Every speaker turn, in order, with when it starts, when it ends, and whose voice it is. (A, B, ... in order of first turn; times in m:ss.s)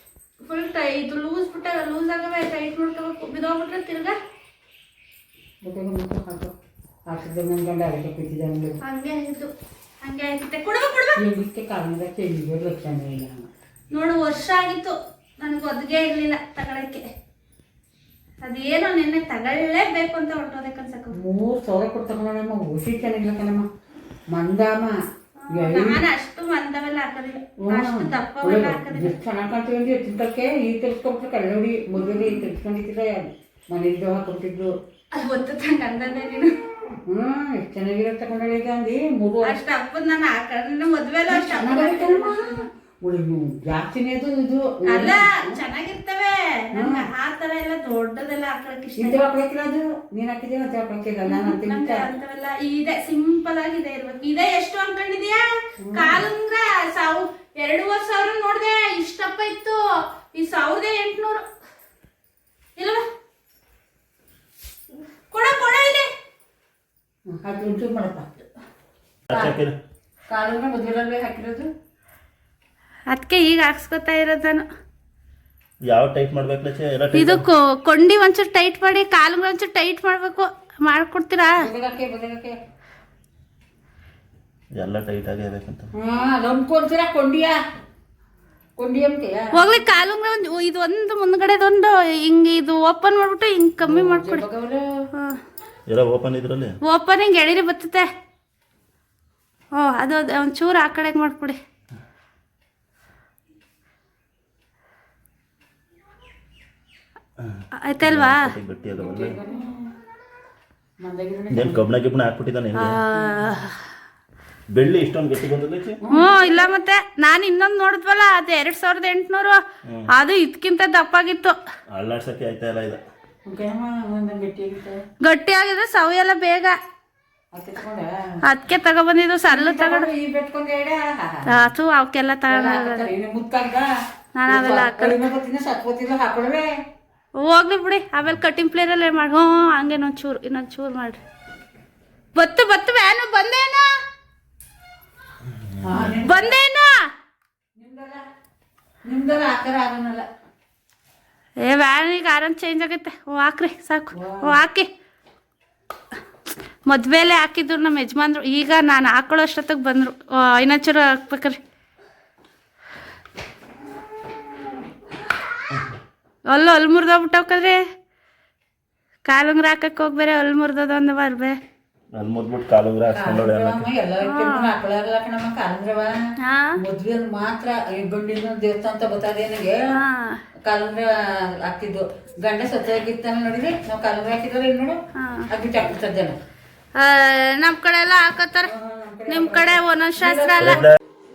0:00.4-0:04.2 A
0:05.6-0:06.5 B
0:07.1-0:08.8 B
0:08.8-0:11.2 A
0:11.2-0:13.5 B
0:13.9-0:17.0 A
0:18.4-0:21.1 A
0:21.1-0:23.7 B
0:24.3-0:25.0 B
0:25.4-0:29.1 A
0:25.5-0:26.0 B
0:27.6-0:34.7 B
0:32.0-0:32.5 A
0:35.1-0:36.5 A
0:37.1-0:39.6 B
0:39.4-0:42.7 A
0:41.3-0:45.6 B
0:44.9-0:49.2 A
0:46.7-0:47.0 B
0:49.0-0:52.1 B
0:51.2-0:59.8 A
0:55.8-0:56.2 B
1:00.3-1:01.4 A
1:02.8-1:03.0 A
1:05.3-1:06.1 A
1:07.3-1:08.2 B
1:09.3-1:09.8 C
1:09.3-1:09.6 B
1:10.3-1:11.7 B
1:13.1-1:14.7 A
1:15.8-1:17.4 C
1:17.1-1:21.6 A
1:21.6-1:22.6 B
1:24.8-1:25.9 C
1:26.0-1:27.6 B
1:28.8-1:29.7 B
1:29.5-1:34.4 A
1:33.8-1:34.8 B
1:35.9-1:36.8 C
1:36.8-1:38.1 A
1:39.8-1:41.6 A
1:47.4-1:49.4 C
1:47.8-1:48.5 A
1:49.0-1:49.9 B
1:51.0-1:51.9 B
1:51.5-1:53.0 C
1:52.8-1:53.8 A
1:54.7-1:56.0 C
1:56.0-1:56.7 B
1:56.1-1:59.6 A
2:00.1-2:01.6 A
2:01.9-2:03.0 C
2:03.4-2:05.0 B
2:05.2-2:06.8 A
2:07.5-2:08.4 B
2:08.4-2:10.1 A
2:09.5-2:11.4 B
2:11.5-2:13.1 A
2:12.5-2:13.9 B
2:14.4-2:15.2 A
2:14.5-2:16.7 B
2:17.4-2:21.2 A
2:22.4-2:23.9 A
2:25.8-2:26.6 B
2:26.2-2:26.9 A
2:27.8-2:28.2 B
2:29.0-2:30.3 B
2:31.6-2:34.9 A
2:34.1-2:34.6 B
2:36.9-2:41.6 A
2:46.5-2:47.8 A
2:49.3-2:51.6 A
2:52.1-2:53.9 C
2:53.1-2:56.2 B
2:54.2-2:54.7 A
2:56.4-2:56.8 A
2:56.8-2:59.8 B
2:59.9-3:00.4 A
3:00.6-3:06.4 B
3:05.1-3:05.5 A
3:07.0-3:08.7 A
3:08.6-3:10.9 B
3:09.3-3:10.9 A
3:10.6-3:11.0 C